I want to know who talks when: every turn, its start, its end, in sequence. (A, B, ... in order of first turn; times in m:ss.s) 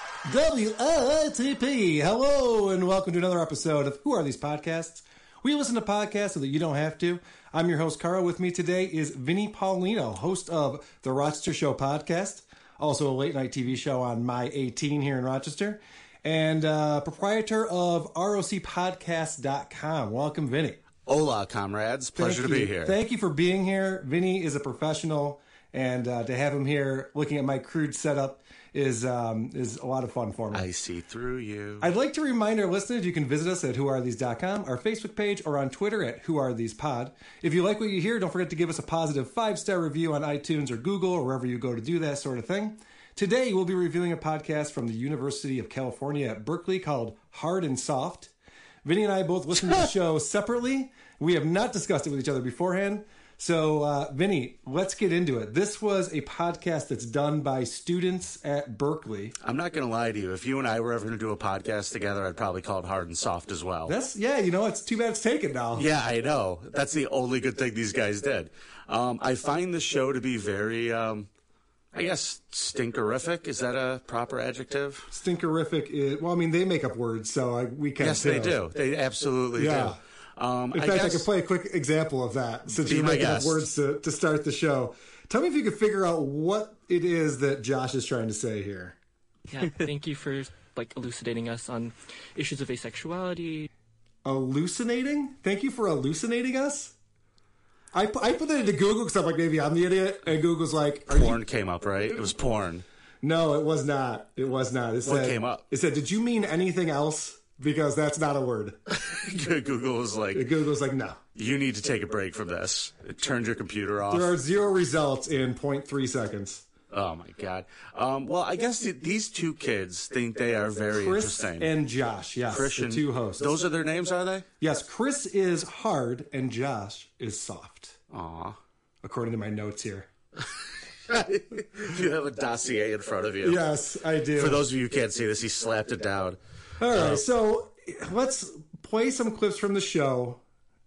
0:00.2-0:20.8 A
0:21.0-0:23.0 B
0:22.2-0:30.7 A
0:30.5-0:31.9 B
0:31.8-0:48.3 A
0:48.8-0:59.3 A
0:59.4-1:04.0 B
1:03.9-1:05.8 A
1:05.7-1:11.3 B
1:11.9-1:15.1 B
1:15.1-1:18.6 A
1:18.0-1:21.3 B
1:19.5-1:20.0 A
1:20.7-1:29.0 A
1:22.7-1:23.7 B
1:29.5-1:33.7 C
1:34.2-1:36.9 A
1:37.9-1:41.4 A
1:41.1-1:42.8 B
1:43.2-1:48.8 A
1:45.0-1:45.6 B
1:48.9-1:50.5 B
1:50.3-1:51.2 A
1:51.3-1:54.4 B
1:54.1-1:56.6 A
1:56.9-2:01.8 B
2:00.9-2:03.5 A
2:02.5-2:04.5 B
2:04.6-2:08.0 A
2:08.1-2:08.6 B
2:09.0-2:10.1 A
2:11.1-2:13.7 B
2:13.4-2:14.6 A
2:14.3-2:16.4 B
2:16.8-2:20.4 A
2:16.9-2:17.2 B